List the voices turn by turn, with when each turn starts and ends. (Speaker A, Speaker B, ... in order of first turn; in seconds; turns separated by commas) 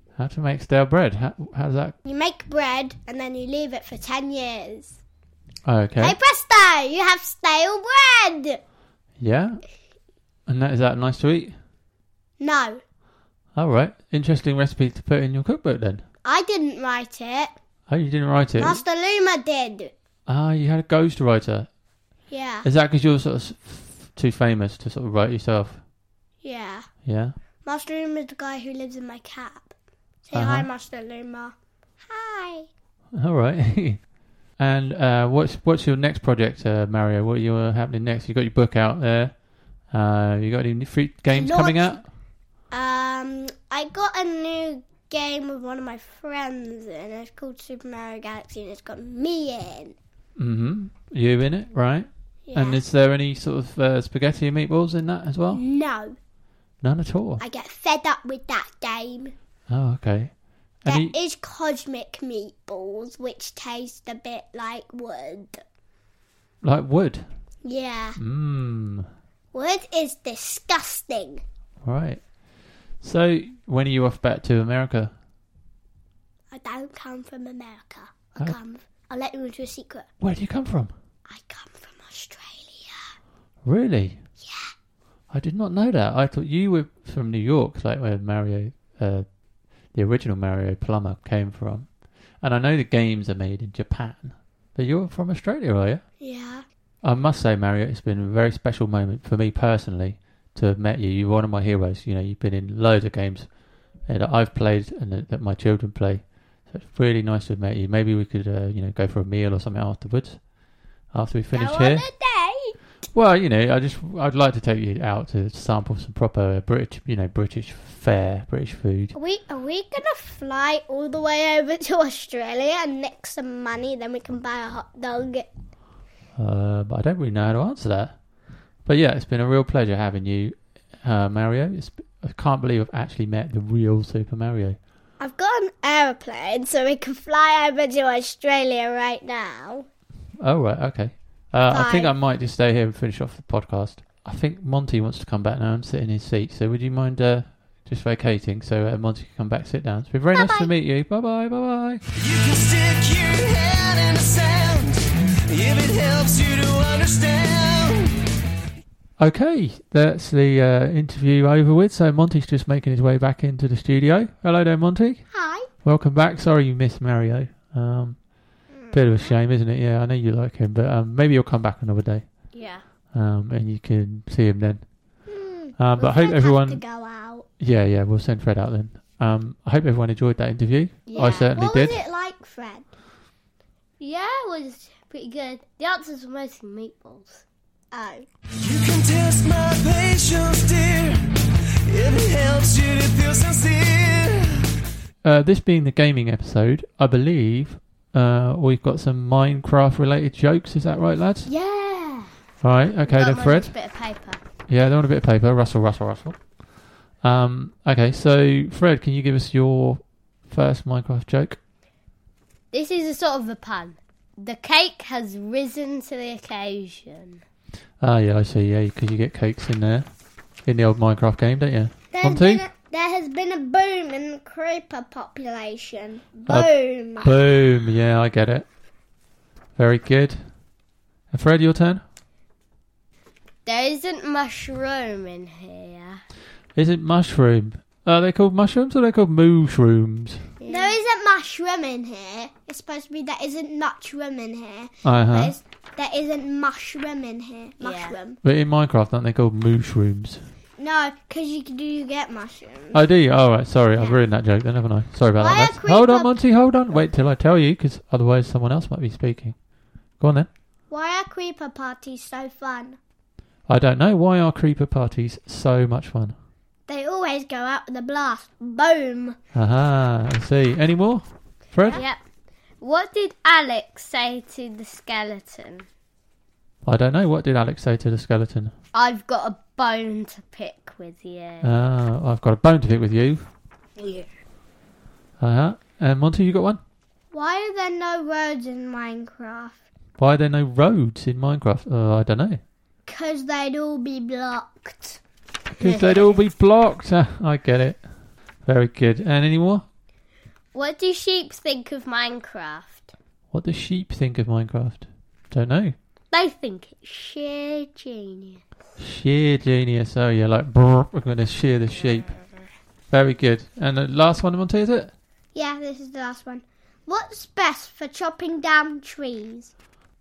Speaker A: 0.2-1.9, Speaker B: 2.0-5.0, Speaker A: 5.6-6.2, Speaker B: 6.0-8.6, Speaker A: 9.2-9.6, Speaker A: 10.5-11.5, Speaker B: 12.4-12.8, Speaker A: 13.6-16.0, Speaker B: 16.2-17.5, Speaker A: 17.9-18.8, Speaker B: 18.5-19.9, Speaker A: 20.3-21.7, Speaker B: 22.3-22.7, Speaker A: 22.6-25.8, Speaker B: 26.4-26.9, Speaker A: 27.0-27.3, Speaker B: 27.6-29.7, Speaker B: 30.2-32.7, Speaker A: 30.3-30.7, Speaker A: 33.1-42.1, Speaker B: 41.3-42.0, Speaker B: 42.7-50.0, Speaker A: 50.4-55.6, Speaker B: 52.5-52.8, Speaker B: 55.5-56.1, Speaker A: 56.8-57.4, Speaker B: 57.4-59.3, Speaker A: 59.7-61.1, Speaker B: 60.9-65.6, Speaker A: 66.6-67.2, Speaker B: 67.6-68.2, Speaker A: 68.2-69.1, Speaker B: 69.5-71.4, Speaker A: 71.8-75.1, Speaker B: 76.5-80.1, Speaker A: 80.2-80.9, Speaker B: 81.2-83.0, Speaker A: 83.6-84.2, Speaker B: 84.4-84.7, Speaker A: 85.3-89.3, Speaker A: 89.9-96.0, Speaker B: 96.2-96.6, Speaker A: 97.0-103.5, Speaker A: 104.0-110.4, Speaker A: 111.1-112.1, Speaker B: 111.5-112.7, Speaker A: 113.1-119.1, Speaker B: 119.1-125.5, Speaker A: 126.3-128.2, Speaker A: 128.8-134.8, Speaker B: 135.2-139.9, Speaker A: 140.4-152.0, Speaker B: 141.7-142.2, Speaker B: 150.3-150.7, Speaker C: 152.2-158.2, Speaker A: 159.2-165.2, Speaker B: 165.3-165.7, Speaker A: 165.8-172.5, Speaker B: 168.7-169.3, Speaker D: 172.5-172.8, Speaker A: 173.1-175.1, Speaker B: 175.3-177.5, Speaker A: 175.8-176.8, Speaker A: 177.6-182.0, Speaker D: 181.1-181.5, Speaker B: 181.5-182.9, Speaker D: 184.0-187.4, Speaker B: 187.9-188.3, Speaker C: 188.6-191.2, Speaker C: 191.8-194.6, Speaker A: 195.2-201.5, Speaker D: 201.4-202.3, Speaker A: 202.6-203.7, Speaker D: 203.0-204.4, Speaker A: 204.7-206.6, Speaker A: 207.2-211.6, Speaker D: 212.7-217.4, Speaker A: 218.0-220.1, Speaker A: 220.6-222.6, Speaker B: 222.1-227.5, Speaker A: 226.5-228.7, Speaker A: 229.8-230.4, Speaker A: 231.3-232.0, Speaker D: 233.7-236.2, Speaker A: 236.7-240.5, Speaker D: 240.6-240.9, Speaker B: 240.7-248.4, Speaker A: 245.0-245.6, Speaker D: 247.8-248.2, Speaker A: 248.4-250.4, Speaker B: 250.8-253.0, Speaker A: 252.9-259.6, Speaker B: 253.9-254.2, Speaker B: 255.4-256.4, Speaker A: 260.2-260.5, Speaker B: 260.9-263.0, Speaker A: 263.7-266.3, Speaker B: 266.9-269.4, Speaker A: 269.5-272.0, Speaker D: 271.9-272.2, Speaker D: 272.8-275.9, Speaker A: 276.8-278.7, Speaker D: 278.9-281.8, Speaker A: 281.6-283.4, Speaker D: 284.0-284.3, Speaker A: 285.4-286.8, Speaker B: 287.3-289.8, Speaker A: 290.2-292.6, Speaker B: 293.1-295.2, Speaker D: 295.8-296.4, Speaker A: 295.8-298.1, Speaker A: 298.6-299.8, Speaker D: 300.7-303.1, Speaker A: 303.5-305.9, Speaker D: 306.3-308.6, Speaker A: 309.0-312.3, Speaker A: 313.1-315.1, Speaker B: 315.5-319.7